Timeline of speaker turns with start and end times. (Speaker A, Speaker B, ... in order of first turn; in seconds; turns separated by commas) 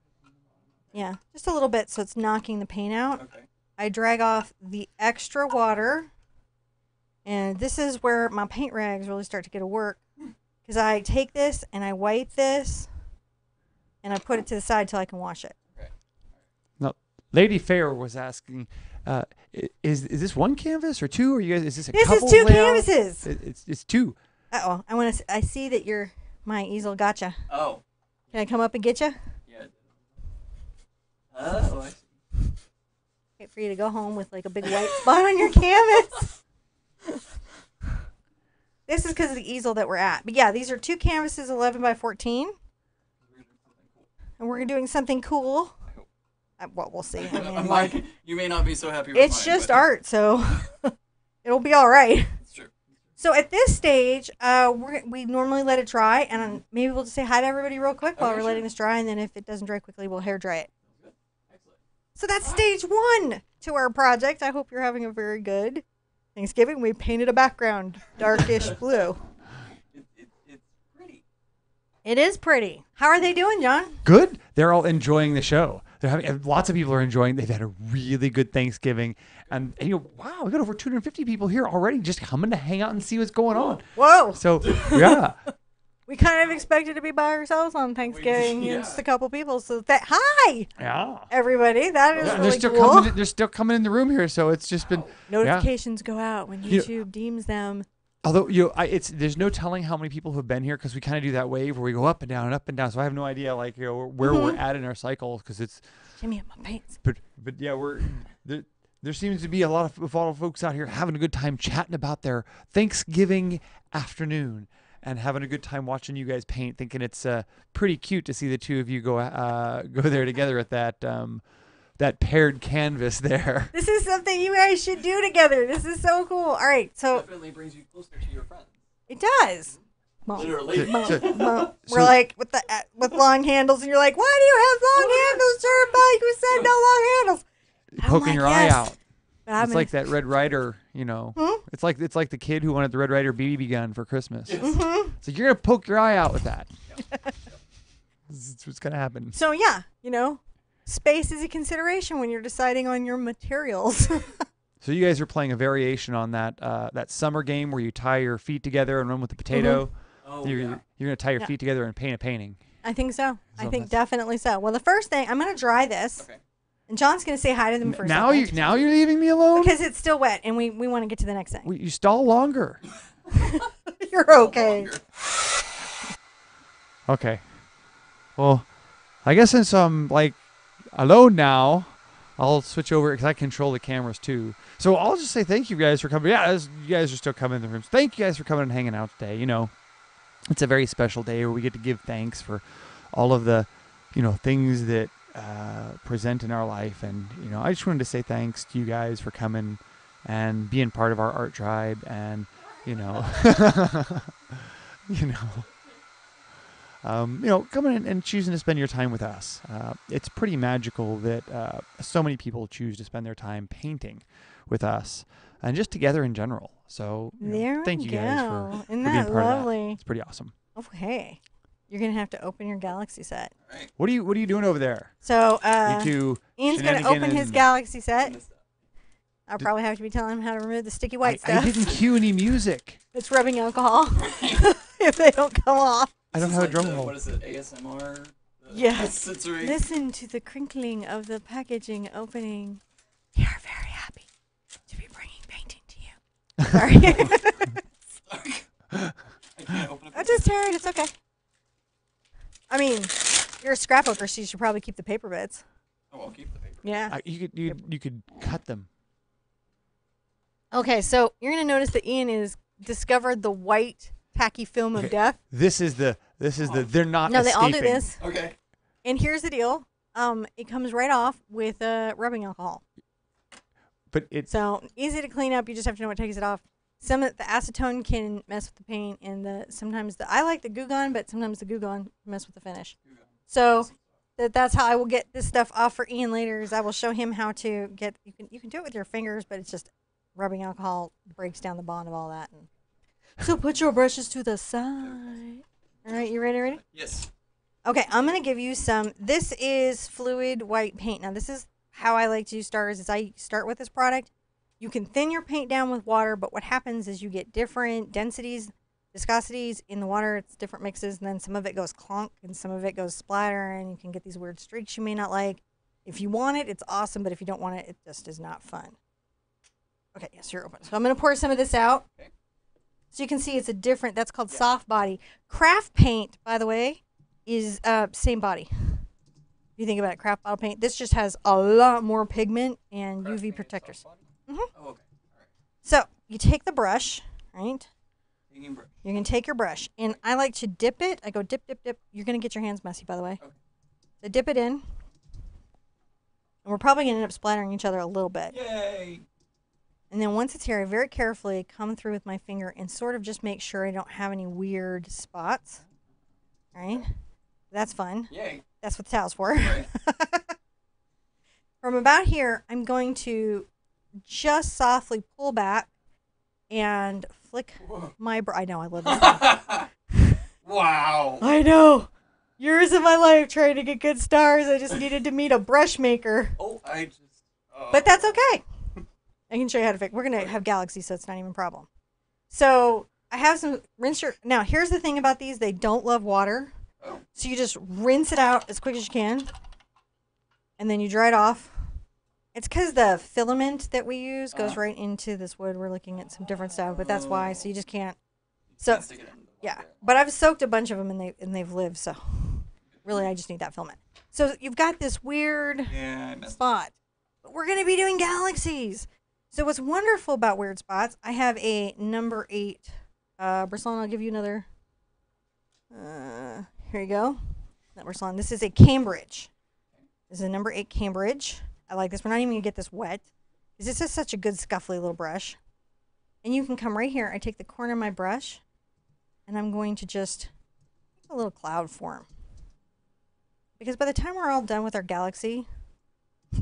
Speaker A: 0.2-1.0, Speaker B: 0.9-3.2, Speaker A: 3.2-3.5, Speaker B: 3.8-6.1, Speaker B: 7.2-10.0, Speaker B: 10.6-12.9, Speaker B: 14.0-15.5, Speaker C: 16.8-24.2, Speaker B: 21.9-23.3, Speaker B: 24.5-27.4, Speaker A: 27.5-28.4, Speaker B: 28.3-29.2, Speaker A: 29.5-29.9, Speaker A: 31.3-32.1, Speaker B: 33.4-36.3, Speaker B: 38.9-42.6, Speaker A: 43.2-44.1, Speaker B: 44.4-45.8, Speaker B: 46.6-48.0, Speaker A: 47.2-49.9, Speaker B: 49.1-52.4, Speaker A: 52.4-52.8, Speaker B: 53.2-60.7, Speaker A: 58.2-58.6, Speaker A: 60.9-61.8, Speaker B: 62.1-65.8, Speaker B: 66.3-69.2, Speaker A: 69.9-71.2, Speaker B: 72.0-74.0, Speaker C: 74.0-85.4, Speaker A: 83.5-83.8, Speaker B: 83.9-85.0, Speaker A: 84.6-85.0, Speaker B: 86.1-90.7, Speaker A: 88.0-89.0, Speaker C: 90.8-91.3, Speaker B: 91.3-93.1, Speaker A: 92.1-92.4, Speaker C: 92.2-95.7, Speaker A: 94.8-95.2, Speaker B: 95.3-97.8, Speaker C: 98.2-105.9, Speaker B: 104.2-104.6, Speaker B: 106.2-106.9, Speaker C: 107.0-121.4, Speaker C: 122.0-123.7, Speaker B: 123.7-127.2, Speaker A: 127.1-128.8, Speaker B: 129.1-137.4, Speaker A: 130.3-131.7, Speaker C: 130.7-132.1, Speaker A: 135.0-135.4, Speaker C: 137.9-139.0, Speaker B: 138.0-138.9, Speaker B: 139.4-140.1, Speaker C: 139.6-146.8, Speaker B: 141.3-141.6, Speaker A: 144.4-144.8, Speaker B: 144.6-145.1, Speaker C: 148.3-149.4, Speaker B: 149.3-154.3, Speaker C: 154.8-162.6, Speaker B: 159.5-159.8, Speaker A: 160.2-160.8, Speaker B: 162.8-166.2, Speaker C: 163.6-163.9, Speaker B: 166.9-168.9, Speaker C: 167.8-169.7, Speaker B: 169.5-171.7, Speaker C: 171.6-172.8, Speaker B: 173.3-174.9, Speaker A: 174.3-175.0, Speaker C: 177.1-177.7, Speaker C: 178.3-178.7, Speaker C: 179.2-189.8, Speaker C: 190.5-205.7, Speaker C: 207.0-220.5, Speaker B: 217.4-220.0, Speaker B: 220.7-223.5, Speaker A: 223.6-223.9, Speaker C: 224.0-225.1, Speaker B: 225.2-228.3, Speaker C: 225.8-227.6, Speaker A: 228.1-228.6, Speaker B: 229.5-231.9, Speaker C: 231.2-233.0, Speaker B: 233.1-236.1, Speaker A: 234.2-234.6, Speaker C: 236.3-237.1, Speaker A: 236.3-239.8, Speaker B: 238.7-242.8, Speaker B: 243.3-244.3, Speaker B: 244.9-246.2, Speaker B: 246.7-247.8, Speaker A: 248.2-248.7, Speaker A: 249.5-250.5, Speaker B: 250.1-251.1, Speaker B: 252.7-255.6, Speaker A: 256.1-256.9, Speaker B: 256.8-257.2, Speaker C: 257.1-258.9, Speaker B: 260.7-265.4, Speaker C: 264.9-268.1, Speaker A: 266.6-266.9, Speaker B: 267.3-268.2, Speaker A: 268.2-268.6, Speaker B: 269.0-272.8, Speaker C: 274.1-274.5, Speaker B: 274.5-282.9, Speaker A: 283.0-284.0, Speaker B: 283.5-292.7, Speaker B: 293.4-296.8, Speaker A: 295.0-295.4, Speaker A: 296.0-297.3, Speaker B: 297.8-318.9, Speaker B: 320.1-322.1, Speaker B: 323.1-329.1, Speaker B: 329.8-334.7, Speaker A: 333.2-335.5, Speaker B: 335.8-337.9, Speaker A: 338.5-339.2, Speaker B: 339.0-343.4, Speaker B: 344.2-344.8, Speaker B: 346.6-348.5, Speaker A: 348.5-349.2, Speaker B: 350.1-355.8, Speaker B: 356.7-357.1, Speaker B: 357.7-360.5, Speaker A: 358.3-358.6, Speaker A: 359.5-359.9, Speaker B: 361.8-363.7, Speaker B: 364.2-365.9, Speaker B: 366.7-369.4, Speaker A: 367.8-368.1, Speaker A: 369.0-369.9, Speaker A: 370.6-371.4, Speaker B: 371.4-376.6, Speaker A: 376.6-378.3, Speaker B: 377.9-378.6, Speaker B: 379.5-381.9, Speaker B: 382.5-386.7, Speaker B: 387.3-389.5, Speaker B: 390.8-391.9, Speaker B: 392.5-398.2, Speaker A: 394.5-394.8, Speaker A: 396.3-397.7, Speaker A: 398.7-400.2, Speaker B: 399.6-414.7, Speaker A: 402.9-403.2, Speaker A: 405.9-406.6, Speaker B: 415.9-419.5, Speaker B: 420.3-423.3, Speaker B: 423.8-425.6, Speaker B: 426.4-428.6, Speaker B: 429.5-430.5, Speaker B: 431.3-432.3, Speaker B: 433.8-435.7